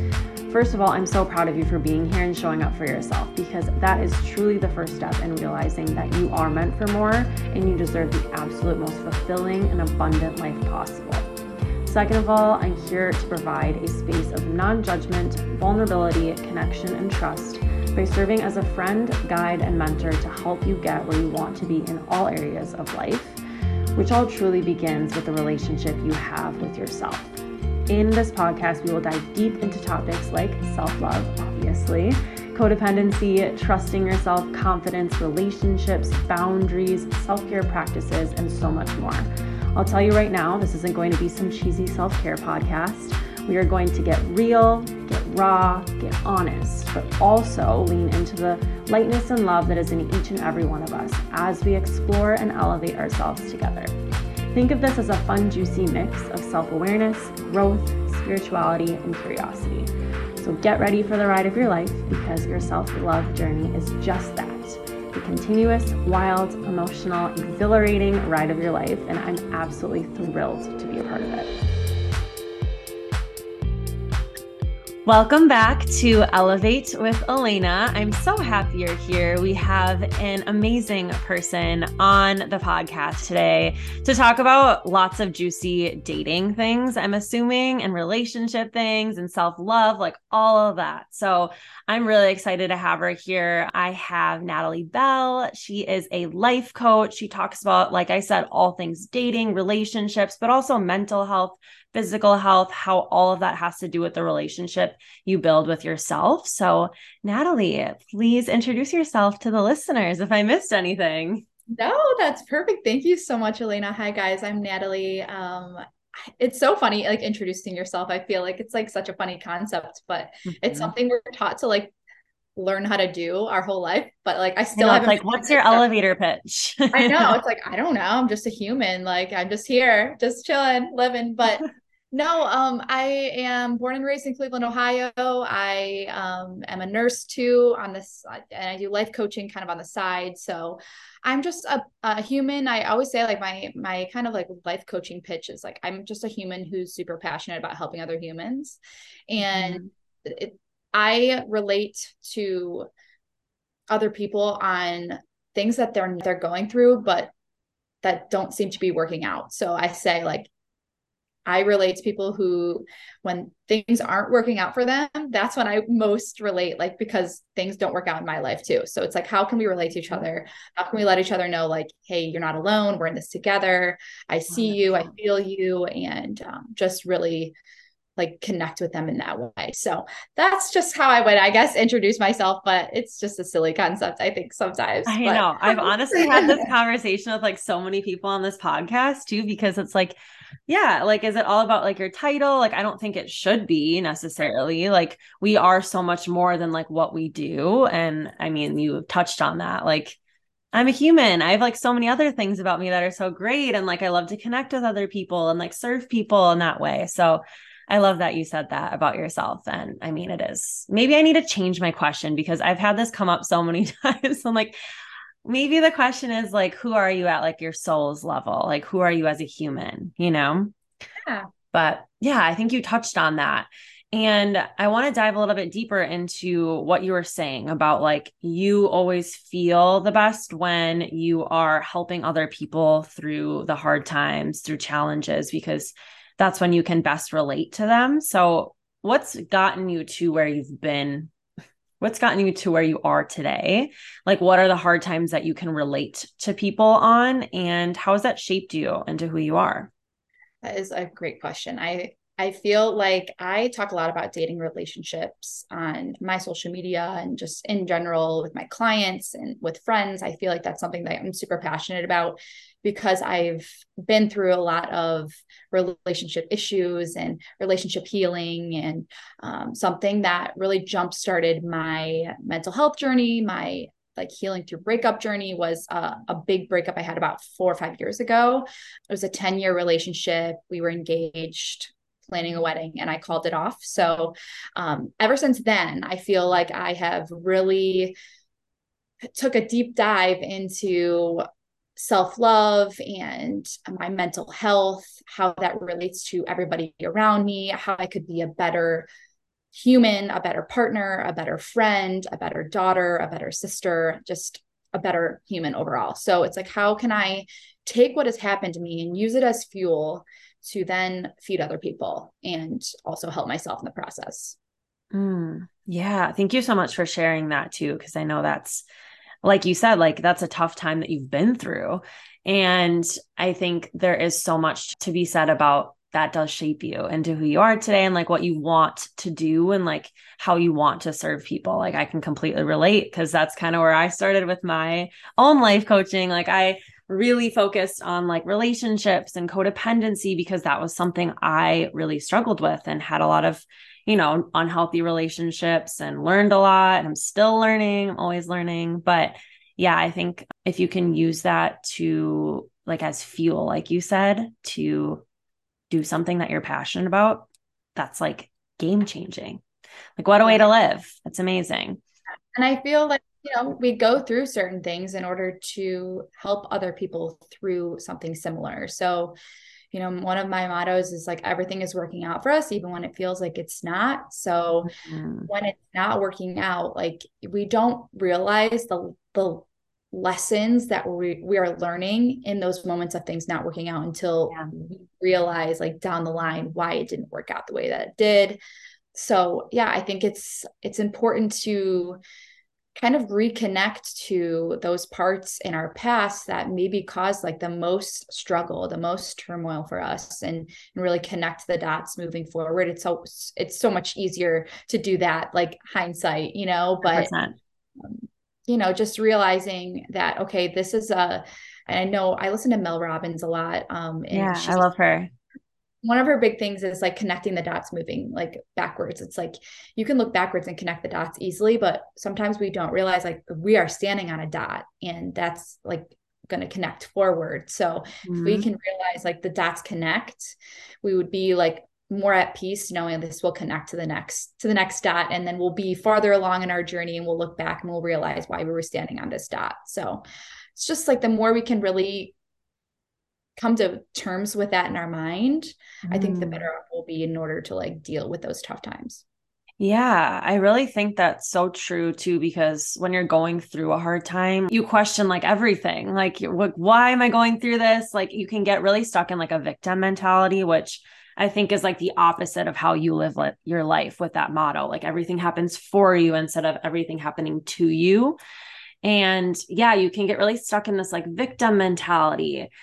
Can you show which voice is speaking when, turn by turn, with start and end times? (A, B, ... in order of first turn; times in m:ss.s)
0:00.5-0:11.3 A
0:11.8-0:23.4 A
0:24.0-0:27.4 A
0:27.9-0:53.9 A
0:54.5-1:11.5 A
1:15.0-1:51.4 A
1:51.7-1:55.8 B
1:56.4-2:01.9 B
2:00.5-2:00.9 A
2:02.6-2:05.9 B
2:04.8-2:07.4 A
2:06.9-2:28.8 B
2:29.3-2:32.9 B
2:29.4-2:29.9 A
2:33.9-2:37.3 B
2:38.0-2:40.5 B
2:41.5-2:57.6 B
2:54.5-2:55.1 A
2:58.2-3:06.7 B
3:05.1-3:10.2 A
3:10.7-3:20.2 A
3:20.7-3:34.8 A
3:35.4-3:40.7 A
3:41.2-3:41.5 B
3:41.7-4:01.3 A
4:02.0-4:09.9 A
4:10.6-4:48.2 B
4:49.3-4:51.4 B
4:52.0-4:59.1 B
4:59.7-5:14.6 B
5:15.1-5:18.8 A
5:19.4-5:55.2 A
5:55.9-5:59.6 A
6:00.2-6:02.0 A
6:02.6-6:09.4 B
6:09.9-6:14.9 B
6:14.8-6:15.5 A
6:15.5-6:28.6 B
6:29.1-6:32.2 B
6:33.0-6:47.3 B
6:47.0-6:47.6 A
6:48.0-6:54.9 B
6:54.3-6:55.3 A
6:56.0-7:20.2 B
7:08.2-7:08.7 A
7:20.8-7:22.3 B
7:23.6-7:29.2 B
7:26.1-7:26.7 A
7:29.8-7:48.4 A
7:49.0-7:52.7 A